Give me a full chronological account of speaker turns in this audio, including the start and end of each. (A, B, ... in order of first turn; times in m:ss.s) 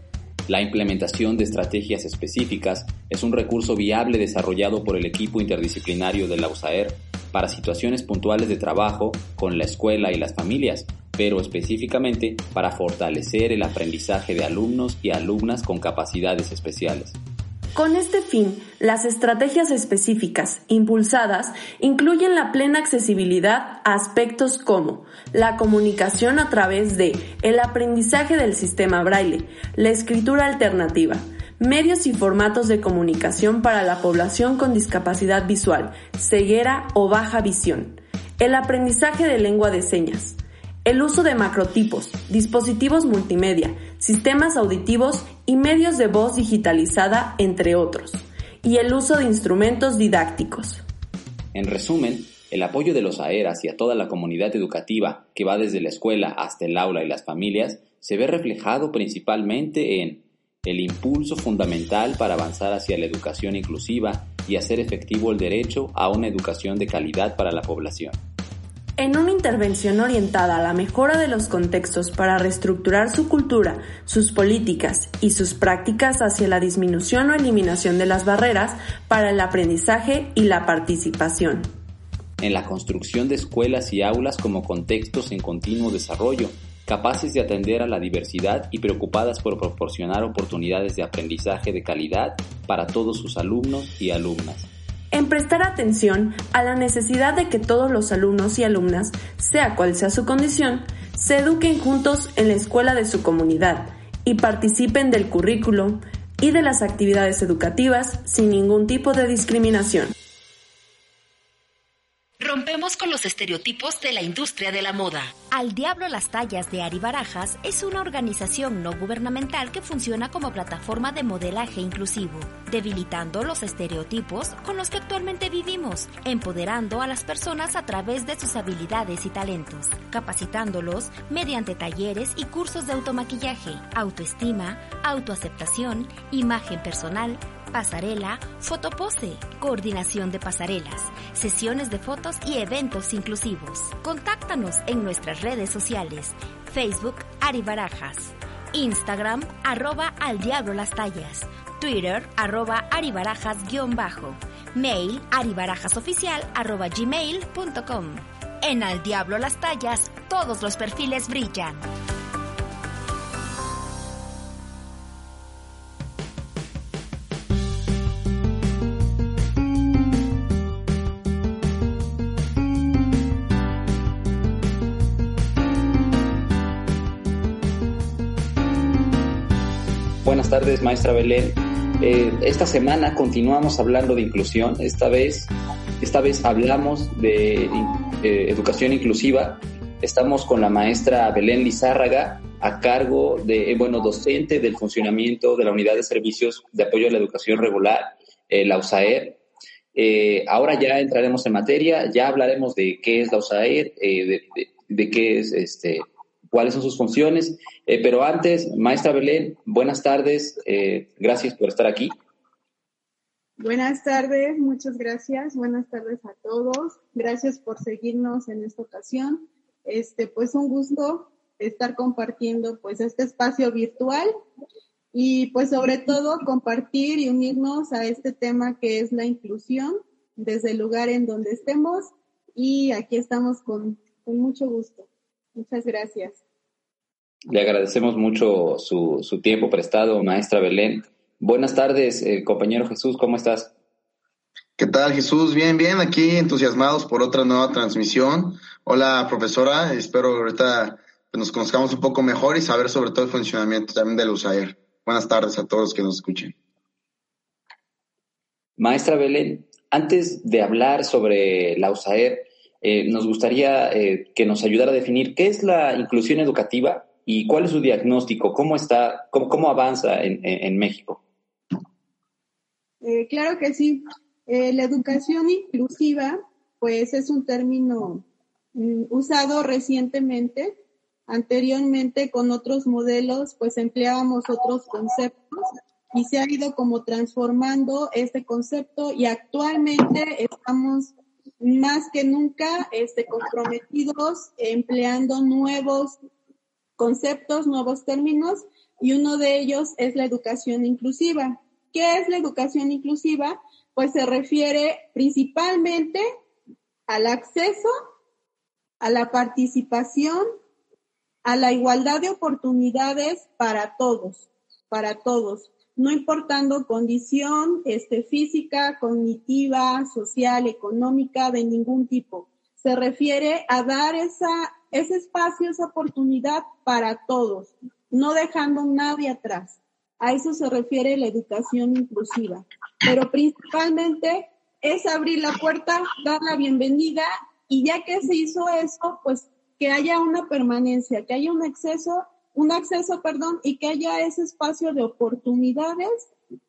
0:00.5-0:17.2 A
0:17.7-0:50.8 B
0:51.5-1:08.2 A
1:09.0-1:21.7 B
1:22.4-1:34.7 A
1:35.1-1:50.1 B
1:52.4-1:55.2 C
1:52.9-1:53.2 D
1:53.8-2:41.8 D
3:00.2-3:19.4 A
3:19.9-3:32.1 A
3:33.6-3:44.3 E
3:45.1-3:56.4 E
3:57.5-4:03.7 A
4:04.8-4:16.5 F
4:18.8-4:31.2 A
4:33.0-4:40.8 E
4:41.3-4:56.2 E
4:57.0-5:06.2 E
5:07.1-5:07.9 E
5:09.0-5:10.4 E
5:11.4-5:46.3 E